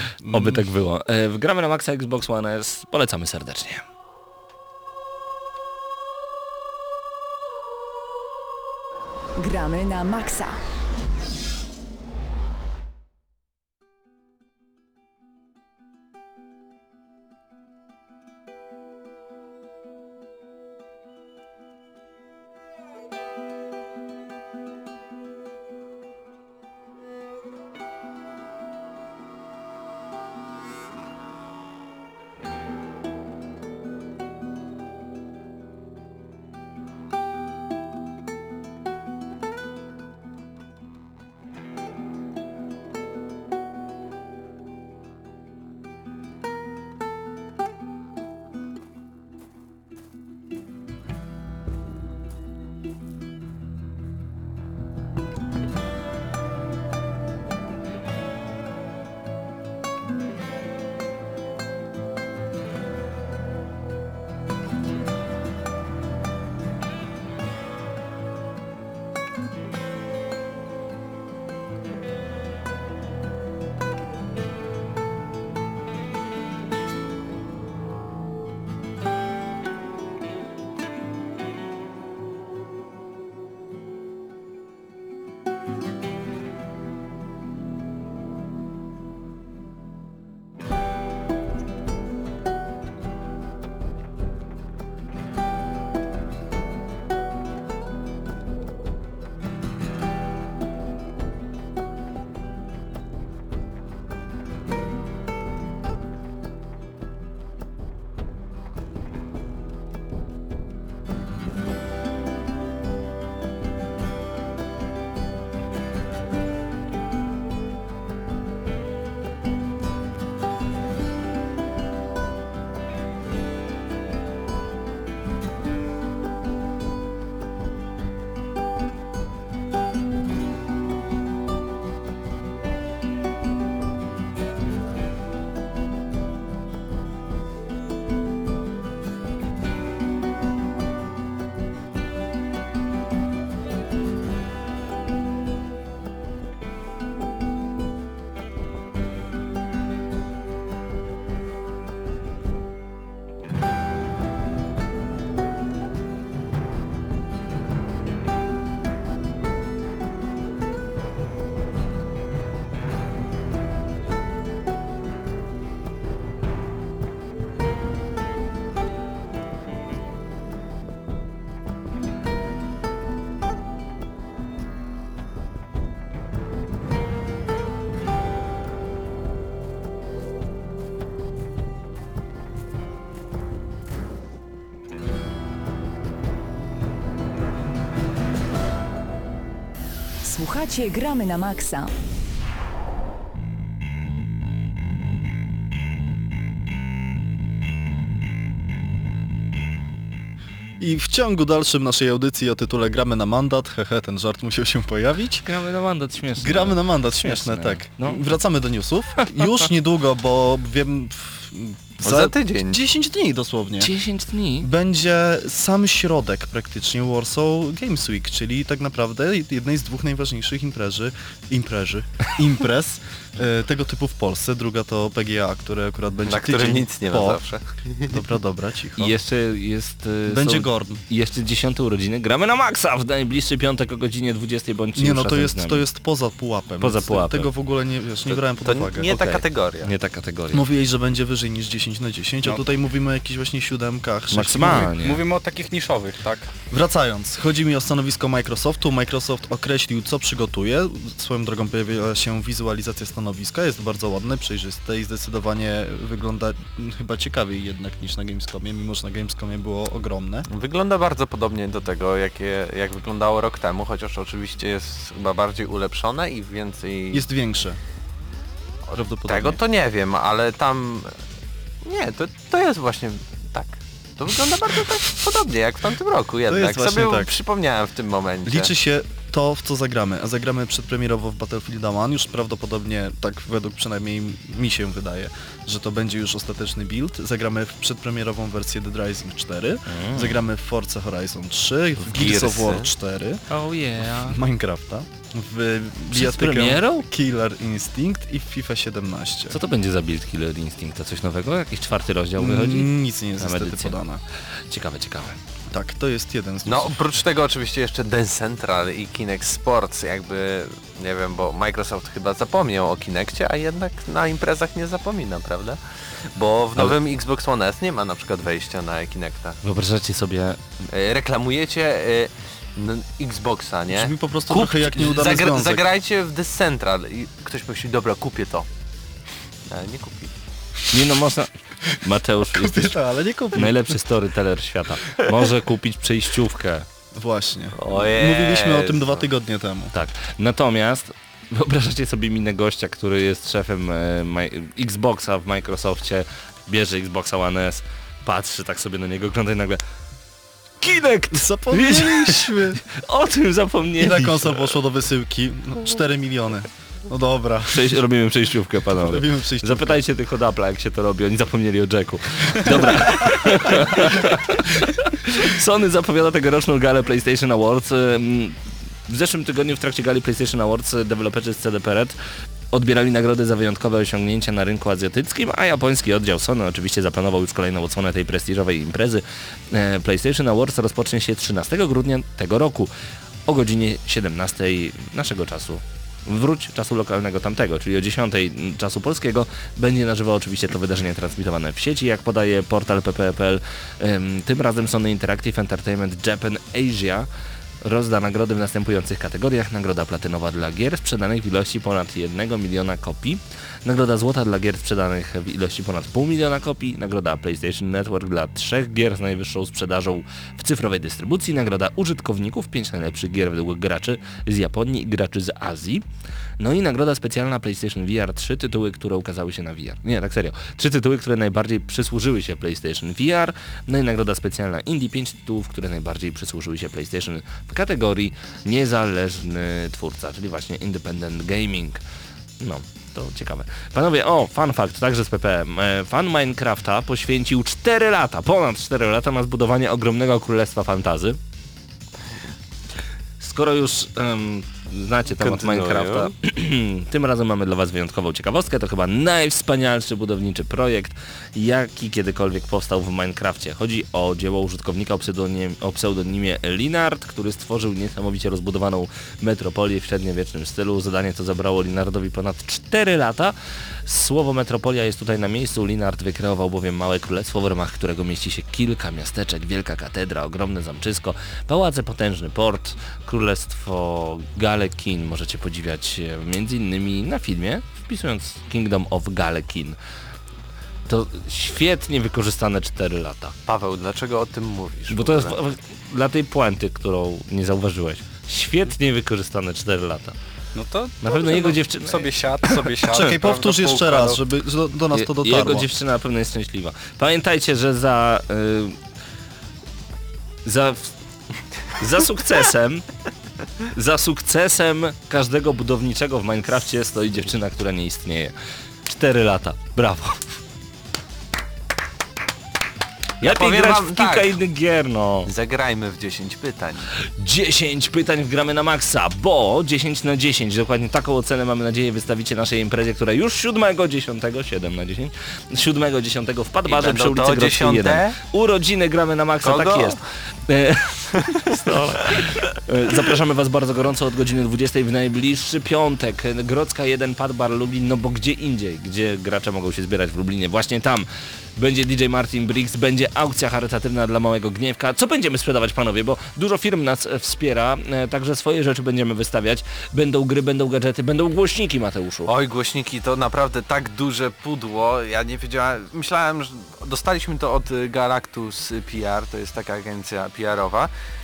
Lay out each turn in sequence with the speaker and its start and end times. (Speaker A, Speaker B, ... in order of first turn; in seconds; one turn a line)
Speaker A: 0.2-0.6
Speaker B: 0.3-3.8
Speaker C: 9.3-10.6
Speaker C: 190.2-191.9
Speaker A: 200.8-205.5
Speaker B: 205.4-208.2
Speaker A: 206.4-213.9
Speaker D: 212.0-212.8
Speaker B: 213.8-214.7
Speaker A: 214.6-227.4
Speaker D: 226.3-228.2
Speaker A: 228.1-229.1
Speaker B: 229.0-235.8
Speaker A: 230.2-231.0
Speaker A: 234.9-239.1
Speaker B: 236.8-237.5
Speaker D: 238.6-239.9
Speaker B: 239.1-240.6
Speaker A: 240.5-244.9
Speaker B: 244.3-245.2
Speaker E: 244.9-246.5
Speaker A: 246.7-260.5
Speaker D: 260.5-267.2
Speaker A: 267.1-267.8
Speaker A: 268.9-269.6
Speaker D: 269.3-271.1
Speaker D: 271.8-278.7
Speaker A: 276.5-277.3
Speaker A: 278.4-293.4
Speaker B: 289.9-290.4
Speaker D: 292.0-292.9
Speaker B: 293.5-294.4
Speaker A: 294.1-299.6
Speaker B: 296.1-297.1
Speaker B: 299.5-304.0
Speaker A: 302.4-304.2
Speaker B: 304.7-305.4
Speaker A: 305.7-307.1
Speaker D: 306.6-319.6
Speaker B: 319.6-320.6
Speaker D: 320.9-328.7
Speaker A: 323.9-325.9
Speaker D: 329.7-330.3
Speaker B: 330.9-333.0
Speaker A: 331.9-333.8
Speaker B: 333.5-336.9
Speaker A: 337.1-339.9
Speaker D: 337.7-339.2
Speaker B: 339.9-349.8
Speaker B: 350.8-354.8
Speaker A: 351.3-352.8
Speaker A: 354.0-358.0
Speaker B: 357.7-372.1
Speaker A: 359.0-360.0
Speaker B: 372.7-382.9
Speaker B: 383.4-397.3
Speaker B: 397.8-416.0
Speaker B: 416.6-432.0
Speaker B: 432.6-441.4
Speaker B: 443.4-463.5
Speaker D: 445.4-446.3
Speaker B: 464.0-480.0
Speaker B: 481.1-483.6
Speaker D: 483.7-485.6
Speaker B: 485.1-490.4
Speaker E: 490.7-494.4
Speaker B: 491.2-493.2
Speaker A: 493.1-495.9
Speaker B: 495.1-499.0
Speaker B: 500.6-501.1
Speaker B: 501.9-503.1
Speaker B: 503.9-508.5
Speaker B: 509.0-510.6
Speaker D: 513.4-514.5
Speaker B: 513.4-515.5
Speaker D: 515.4-517.1
Speaker B: 517.2-552.5
Speaker D: 526.9-528.4
Speaker D: 529.6-530.2
Speaker D: 552.5-561.1